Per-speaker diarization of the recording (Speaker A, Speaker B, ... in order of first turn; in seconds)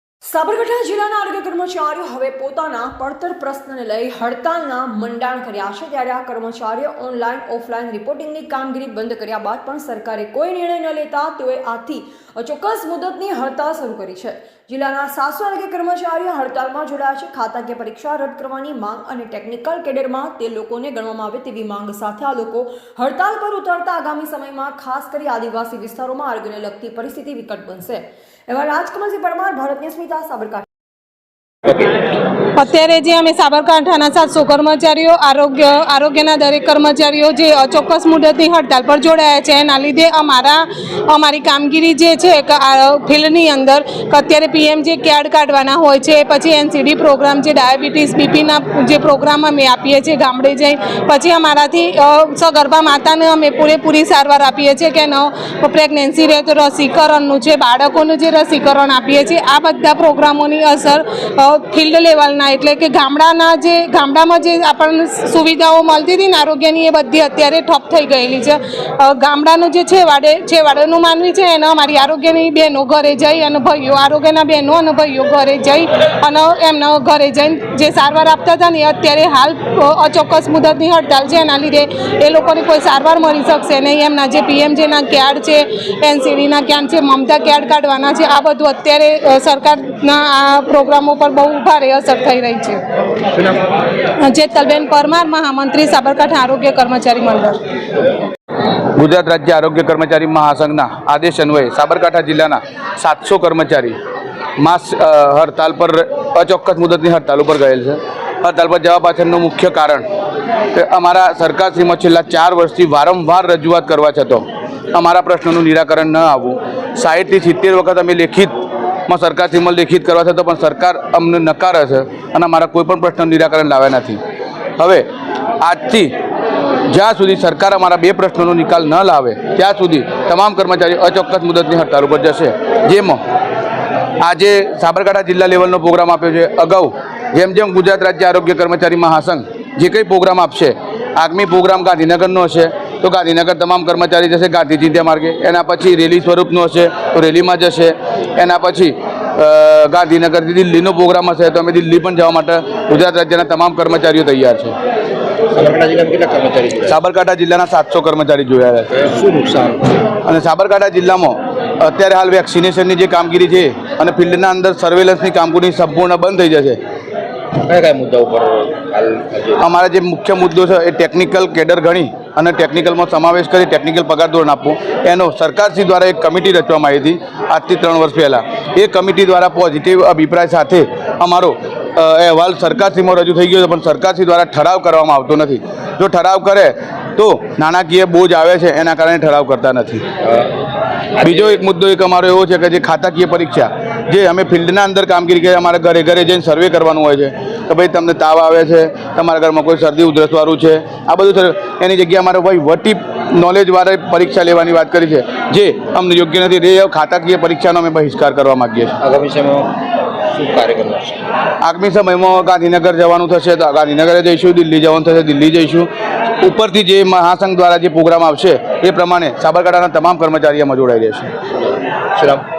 Speaker A: 0.2-30.7
Speaker B: 32.5-92.8, 94.2-97.6
Speaker C: 98.9-104.0, 104.6-110.0, 110.7-118.5, 119.1-124.2, 124.8-125.0, 125.6-126.1, 126.9-133.2, 134.2-154.7, 156.8-159.0, 160.2-166.8, 169.6-190.0, 191.2-208.9, 211.6-215.9, 216.4-221.3
Speaker D: 155.5-156.9, 158.9-160.0, 167.6-169.6, 190.2-190.5, 191.2-191.5, 209.0-209.8, 210.3-211.2, 222.2-222.4